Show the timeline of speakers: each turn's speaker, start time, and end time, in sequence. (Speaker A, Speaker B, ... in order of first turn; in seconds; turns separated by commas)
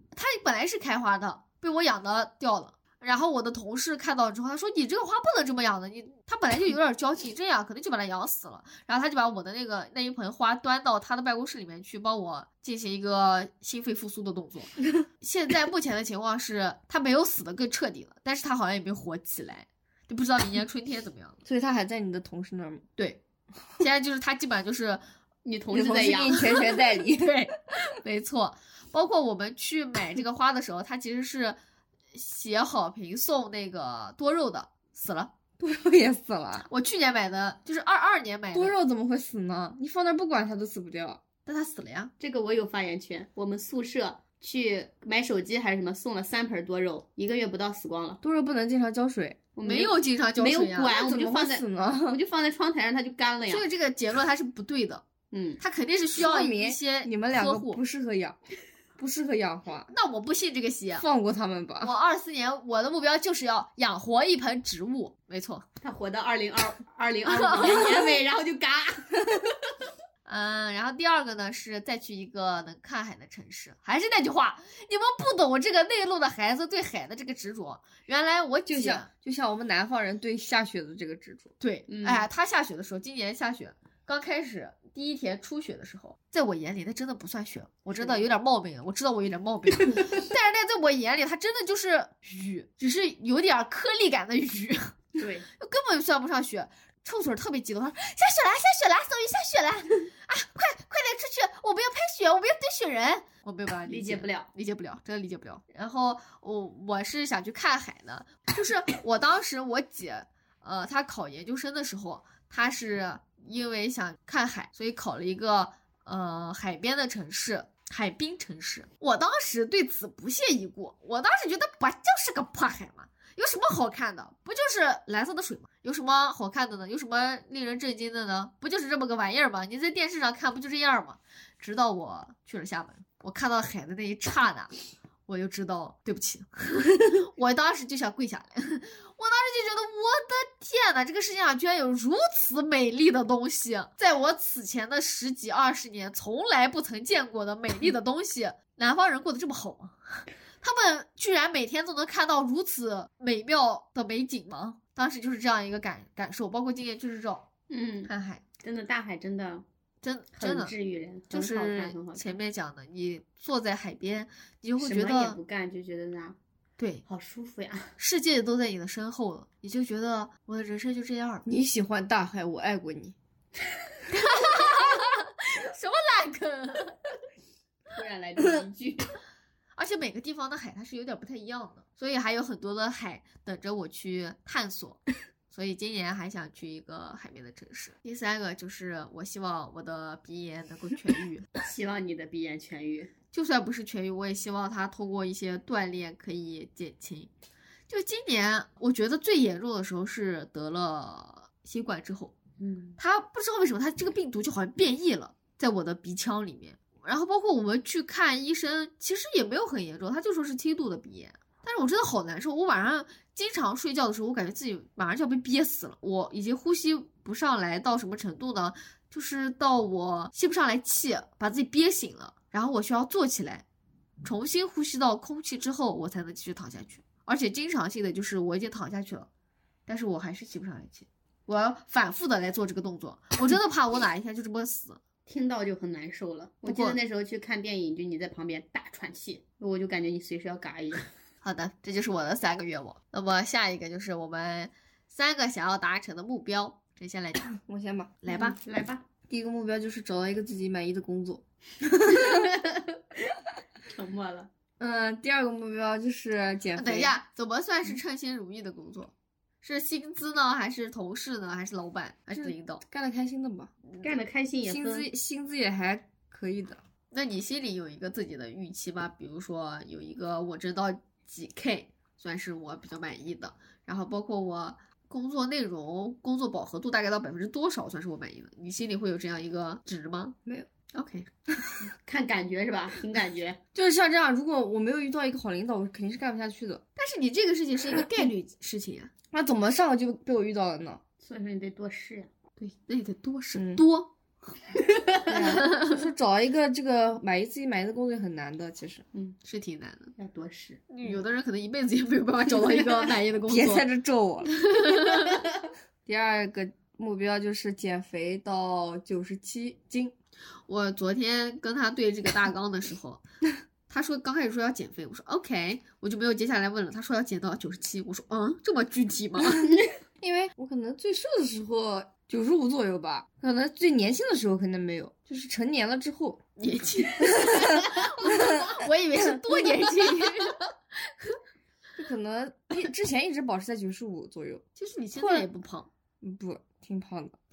Speaker A: 0.1-21.4, Speaker B: 21.4-22.9, Speaker A: 23.8-25.0, Speaker C: 25.4-26.4, Speaker B: 25.7-27.5, Speaker A: 26.3-31.6, Speaker A: 32.1-35.3, Speaker B: 35.6-36.7, Speaker A: 36.7-38.8, Speaker B: 38.5-41.2, Speaker A: 41.5-42.1, Speaker C: 42.2-48.2, Speaker B: 48.2-49.4, Speaker C: 49.6-53.7, Speaker A: 49.6-51.0, Speaker B: 50.9-52.2, Speaker A: 53.5-55.0, Speaker C: 55.3-55.6, Speaker A: 55.6-57.8, Speaker B: 56.2-58.4, Speaker B: 59.0-59.9, Speaker A: 59.9-61.0, Speaker B: 61.0-62.0, Speaker A: 61.8-65.6, Speaker C: 65.8-69.2, Speaker A: 67.3-68.2, Speaker A: 70.3-79.1, Speaker B: 78.7-81.5, Speaker A: 81.6-134.7, Speaker C: 81.9-82.3, Speaker C: 88.0-88.2, Speaker C: 95.2-95.5, Speaker C: 103.9-104.5, Speaker A: 135.3-157.5, Speaker C: 157.7-159.7, Speaker A: 158.1-158.4, Speaker A: 160.0-160.7, Speaker C: 160.4-162.4, Speaker A: 161.3-165.4, Speaker C: 164.8-166.4, Speaker A: 166.8-167.0, Speaker C: 167.1-168.0, Speaker A: 168.0-171.5, Speaker B: 171.5-173.2, Speaker A: 174.1-177.0, Speaker C: 177.9-179.1, Speaker A: 179.8-191.5, Speaker C: 191.6-193.1, Speaker A: 193.3-197.3, Speaker A: 197.9-202.3, Speaker C: 202.6-203.0, Speaker A: 203.0-223.6, Speaker A: 224.2-229.3, Speaker A: 229.9-235.0, Speaker C: 235.3-241.1, Speaker A: 236.7-237.0, Speaker A: 241.4-247.5, Speaker B: 247.5-248.2, Speaker A: 248.2-248.6, Speaker C: 248.3-249.1, Speaker B: 249.3-252.5, Speaker C: 252.5-252.9, Speaker C: 253.9-254.5, Speaker B: 254.8-257.1, Speaker A: 256.8-262.8, Speaker B: 262.4-263.7, Speaker C: 264.0-265.1, Speaker B: 264.7-266.8, Speaker A: 267.1-280.4, Speaker A: 280.9-281.3, Speaker C: 282.0-283.6, Speaker B: 283.7-286.8, Speaker A: 287.0-289.1, Speaker B: 289.3-291.0, Speaker C: 291.2-292.3, Speaker A: 292.6-294.1, Speaker B: 293.6-293.8, Speaker C: 294.8-295.4, Speaker B: 295.3-299.0, Speaker A: 295.6-296.0, Speaker A: 299.4-300.1, Speaker C: 300.2-301.2, Speaker A: 300.9-303.9, Speaker C: 302.5-303.1, Speaker B: 303.5-304.5, Speaker A: 304.5-305.4, Speaker B: 306.1-310.1, Speaker A: 310.7-313.2, Speaker A: 313.9-319.7, Speaker B: 320.2-326.4, Speaker A: 326.6-330.7, Speaker B: 327.2-328.7, Speaker B: 332.0-334.6, Speaker A: 334.8-335.9, Speaker B: 335.2-335.5, Speaker B: 336.2-337.4